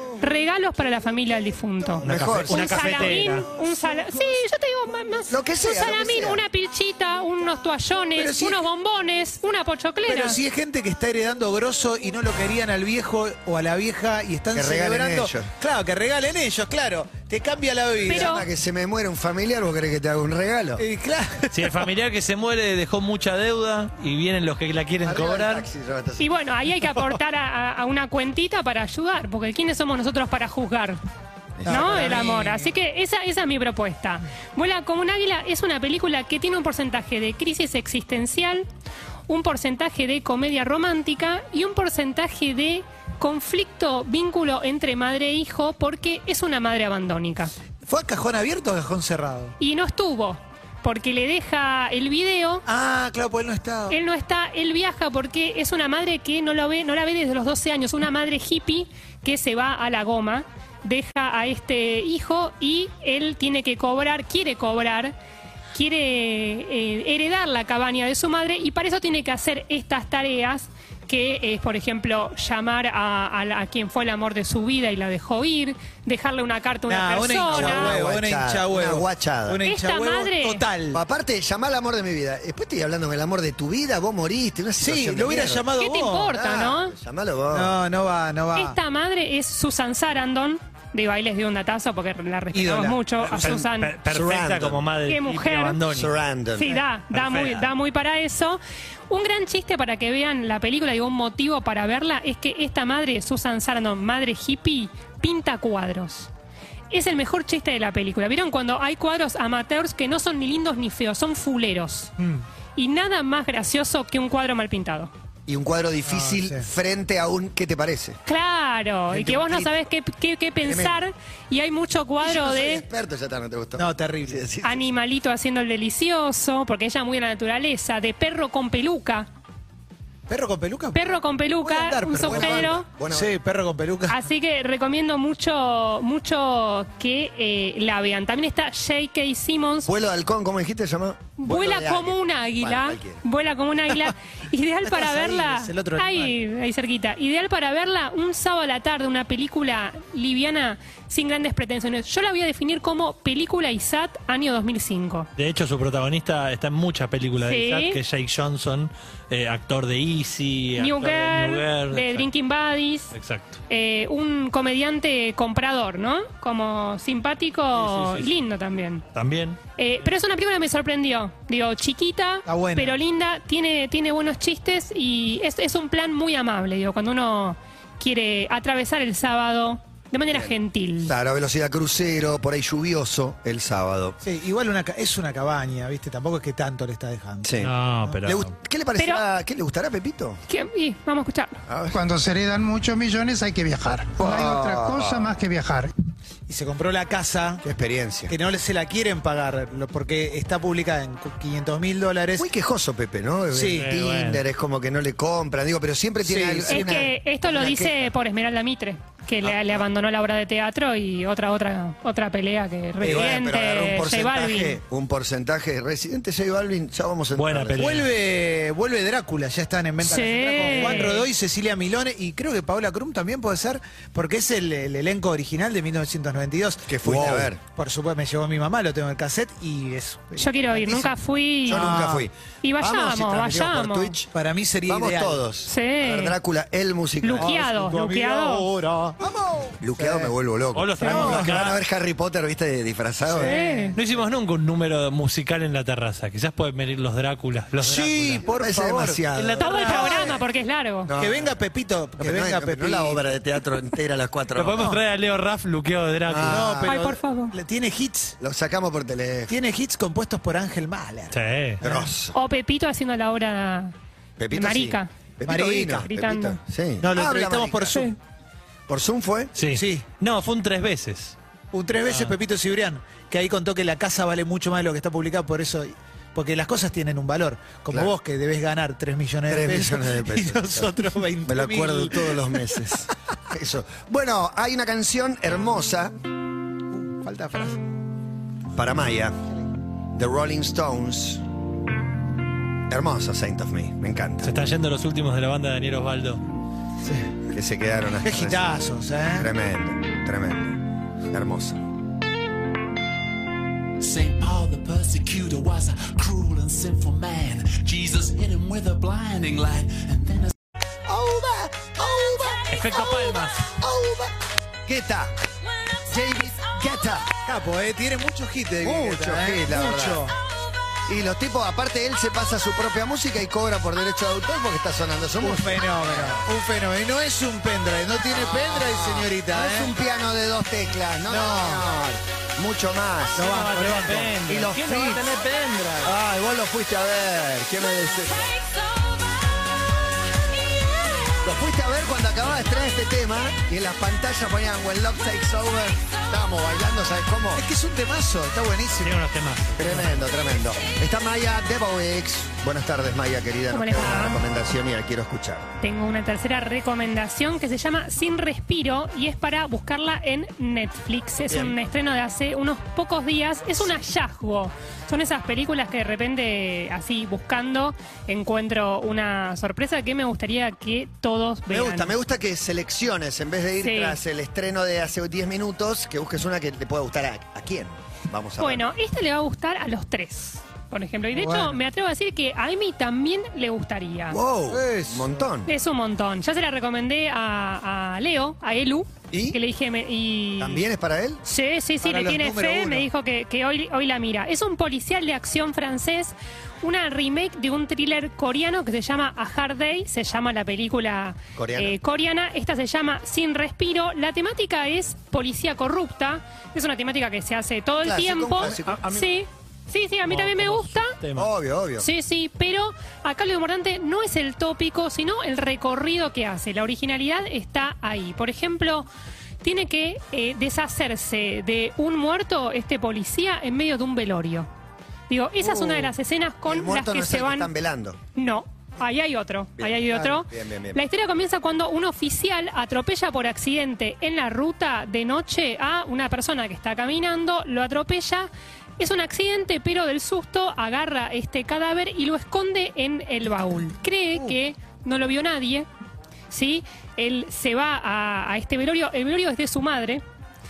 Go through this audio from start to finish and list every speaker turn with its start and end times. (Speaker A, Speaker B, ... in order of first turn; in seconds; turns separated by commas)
Speaker A: 0.2-10.4, Speaker B: 2.0-3.1, Speaker C: 2.0-3.5, Speaker D: 2.3-3.4, Speaker B: 5.3-6.4, Speaker D: 8.2-8.6, Speaker D: 10.0-18.4, Speaker B: 14.5-15.5, Speaker B: 18.1-20.8, Speaker A: 18.1-18.4, Speaker D: 20.8-21.9, Speaker C: 21.5-25.6, Speaker B: 25.0-26.3, Speaker A: 26.2-31.0, Speaker B: 31.6-32.1, Speaker D: 31.6-32.7, Speaker A: 31.6-38.6, Speaker A: 39.3-47.5, Speaker D: 47.9-49.5, Speaker A: 49.6-52.6, Speaker D: 52.6-54.0, Speaker A: 53.9-65.1, Speaker A: 65.7-78.0, Speaker D: 76.9-81.0, Speaker B: 77.5-79.6, Speaker A: 79.6-80.6, Speaker B: 80.9-85.7, Speaker D: 84.8-86.3, Speaker A: 85.8-86.9, Speaker B: 86.2-87.8, Speaker D: 87.5-88.8, Speaker A: 88.5-93.9, Speaker D: 92.5-93.3, Speaker C: 93.3-96.2, Speaker B: 93.4-94.9, Speaker A: 95.1-95.8, Speaker B: 95.9-96.8, Speaker A: 96.5-106.3, Speaker C: 97.1-97.7, Speaker A: 106.9-112.1, Speaker D: 112.2-112.4, Speaker A: 112.8-115.1, Speaker B: 115.5-118.2, Speaker D: 116.0-116.7, Speaker A: 118.2-122.8, Speaker B: 119.1-119.8, Speaker B: 120.6-121.0, Speaker B: 122.2-124.9, Speaker D: 123.8-124.4, Speaker A: 124.6-129.3, Speaker D: 130.3-134.2, Speaker A: 130.9-132.8, Speaker B: 132.2-133.3, Speaker A: 134.1-139.9, Speaker B: 139.9-143.2, Speaker A: 141.4-155.3, Speaker D: 144.8-146.4, Speaker C: 155.4-162.3, Speaker A: 157.4-158.0, Speaker A: 160.8-163.1, Speaker C: 163.1-163.6, Speaker A: 163.7-169.1, Speaker C: 167.8-168.3, Speaker C: 169.1-169.6, Speaker A: 169.8-181.1, Speaker D: 172.4-173.0, Speaker B: 180.3-184.2, Speaker D: 184.2-188.2, Speaker B: 187.4-187.7, Speaker C: 187.6-188.5, Speaker B: 188.2-190.4, Speaker A: 189.0-189.2, Speaker A: 190.5-191.6, Speaker B: 191.7-192.0, Speaker E: 191.9-195.9, Speaker B: 194.2-195.3, Speaker D: 196.5-197.6, Speaker B: 197.6-198.3, Speaker D: 198.3-202.5, Speaker B: 202.4-208.1, Speaker D: 203.5-203.9, Speaker C: 203.7-204.4, Speaker D: 206.2-207.1, Speaker A: 206.7-214.8, Speaker D: 213.0-213.4, Speaker B: 213.0-218.0, Speaker C: 217.3-218.1, Speaker D: 217.8-231.1, Speaker A: 220.0-221.3, Speaker B: 226.9-227.6, Speaker A: 230.4-232.0, Speaker B: 231.7-234.3, Speaker D: 231.7-232.3, Speaker A: 232.6-234.2, Speaker D: 234.3-235.4, Speaker B: 234.9-237.5, Speaker A: 235.7-236.4, Speaker A: 237.2-238.7, Speaker D: 237.3-240.3, Speaker B: 239.8-243.5, Speaker C: 240.7-241.8, Speaker D: 241.0-241.7, Speaker D: 243.2-244.0, Speaker A: 243.4-244.0, Speaker C: 243.9-248.4, Speaker D: 247.8-250.2, Speaker B: 248.4-250.4, Speaker C: 249.3-250.3, Speaker A: 249.6-251.1, Speaker B: 251.1-251.5, Speaker D: 251.2-253.2, Speaker B: 252.2-254.9, Speaker C: 254.5-256.7, Speaker D: 254.8-255.0, Speaker B: 256.3-256.9, Speaker D: 256.4-258.4, Speaker A: 256.9-257.6, Speaker B: 258.4-259.6, Speaker D: 259.5-262.1, Speaker C: 261.3-261.8, Speaker B: 261.8-262.4, Speaker A: 262.3-263.9, Speaker B: 264.4-268.1, Speaker A: 264.5-265.1, Speaker D: 265.4-266.1, Speaker A: 266.0-266.6, Speaker D: 267.0-268.1, Speaker B: 268.9-269.5, Speaker C: 269.5-271.4, Speaker D: 269.7-270.1, Speaker D: 271.7-283.0, Speaker C: 272.1-272.4, Speaker B: 279.5-286.1, Speaker D: 286.9-287.8, Speaker B: 288.7-289.4, Speaker B: 290.1-291.4, Speaker B: 292.9-294.5, Speaker C: 294.4-296.4, Speaker D: 297.0-297.5, Speaker B: 297.5-298.8, Speaker D: 298.2-299.5, Speaker B: 299.3-301.8, Speaker F: 304.0-310.5, Speaker B: 311.1-314.3, Speaker D: 311.2-312.1, Speaker C: 312.7-313.7, Speaker B: 314.9-315.4, Speaker B: 316.1-317.3, Speaker D: 317.4-320.4, Speaker B: 318.8-320.2, Speaker B: 321.1-326.4, Speaker D: 325.4-329.9, Speaker B: 328.3-333.4, Speaker D: 331.3-331.9, Speaker D: 333.4-334.4, Speaker C: 333.4-336.1, Speaker B: 334.4-335.4, Speaker B: 336.0-338.5, Speaker B: 341.4-347.6, Speaker D: 347.6-349.2, Speaker C: 349.0-350.2, Speaker B: 349.8-355.7, Speaker A: 353.7-354.4, Speaker A: 355.8-372.1, Speaker B: 361.5-361.7, Speaker B: 371.7-378.9, Speaker A: 373.8-374.2, Speaker A: 378.6-384.4, Speaker D: 381.3-381.8, Speaker B: 384.3-385.7, Speaker D: 384.7-385.5, Speaker A: 385.6-390.9, Speaker B: 389.3-389.6, Speaker B: 390.6-391.4, Speaker A: 391.4-411.1, Speaker D: 392.0-393.1, Speaker B: 401.6-401.9, Speaker B: 408.0-409.1, Speaker C: 408.6-409.3, Speaker C: 410.3-411.5, Speaker B: 411.4-412.1, Speaker A: 412.0-419.1, Speaker A: 419.6-424.7, Speaker A: 425.3-427.7, Speaker D: 425.6-426.1, Speaker B: 426.7-428.2, Speaker A: 428.4-445.9, Speaker B: 429.8-431.0, Speaker A: 446.5-450.2